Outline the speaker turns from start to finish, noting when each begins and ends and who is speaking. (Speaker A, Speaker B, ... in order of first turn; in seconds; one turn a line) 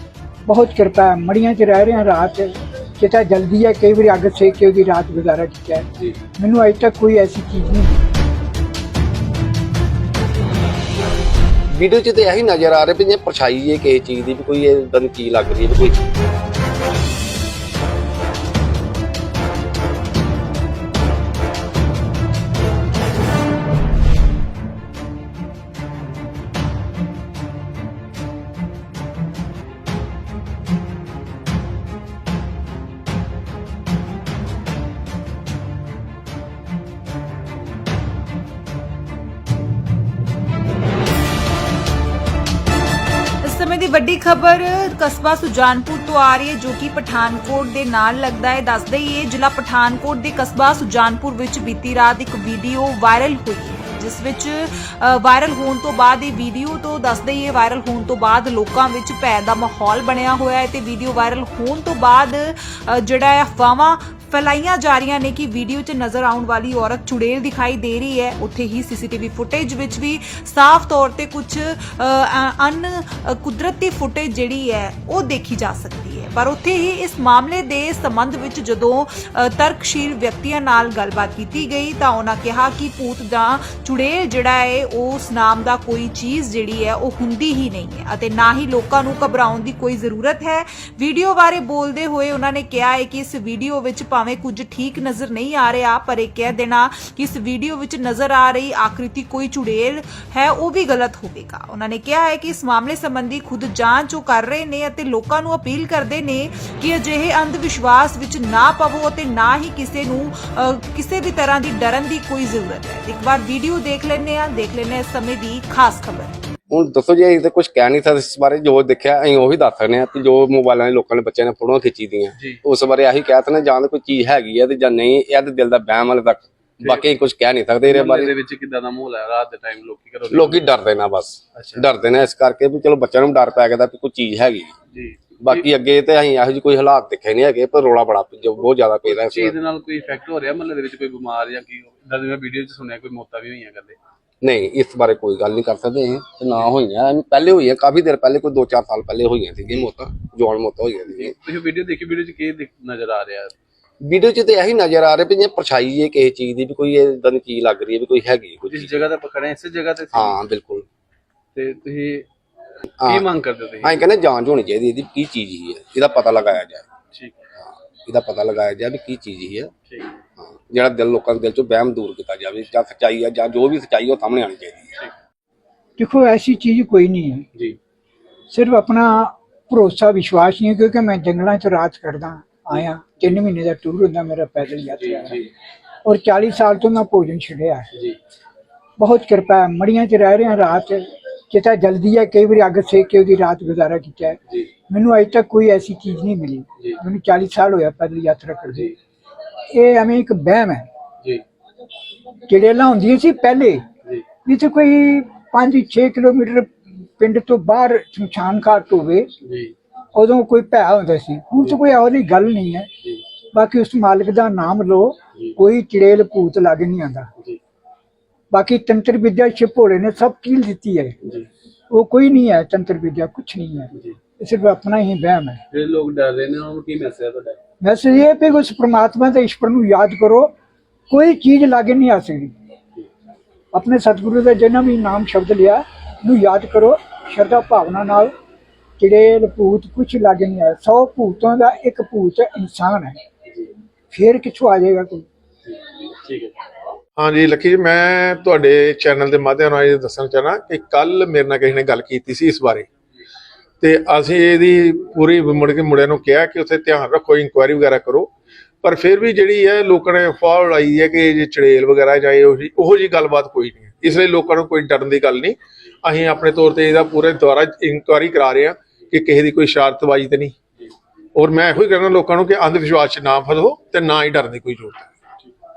Speaker A: 0.5-8.0
Speaker B: 11.7-16.0
Speaker C: 43.4-116.3
Speaker B: 116.7-128.3
Speaker D: 126.8-127.0
Speaker D: 127.8-130.7
Speaker B: 130.3-134.7
Speaker D: 131.6-131.9
Speaker D: 134.9-135.7
Speaker B: 135.4-139.6
Speaker D: 139.0-144.0
Speaker B: 144.4-151.3
Speaker D: 151.1-153.5
Speaker B: 154.0-159.1
Speaker D: 158.6-160.4
Speaker B: 160.1-160.8
Speaker D: 161.5-162.3
Speaker B: 163.0-163.3
Speaker D: 163.0-164.0
Speaker B: 163.8-166.9
Speaker D: 167.1-167.4
Speaker B: 167.6-169.7
Speaker D: 169.9-170.1
Speaker B: 170.4-174.9
Speaker A: 176.0-177.5
Speaker A: 178.5-185.4
Speaker D: 184.9-185.5
Speaker A: 186.0-187.9
Speaker A: 189.0-198.9
Speaker A: 199.7-200.8
Speaker A: 202.5-203.8
Speaker A: 204.4-209.3
Speaker D: 209.4-209.7
Speaker A: 210.1-212.9
Speaker A: 213.5-217.3
Speaker A: 218.5-221.2
Speaker A: 221.9-225.6
Speaker D: 225.7-227.6
Speaker A: 227.8-230.5
Speaker A: 231.1-232.5
Speaker A: 233.7-238.3
Speaker A: 239.0-243.2
Speaker A: 244.1-245.2
Speaker D: 245.7-246.6
Speaker E: 247.2-252.8
Speaker E: 253.8-258.3
Speaker E: 258.8-270.6
Speaker E: 271.3-275.1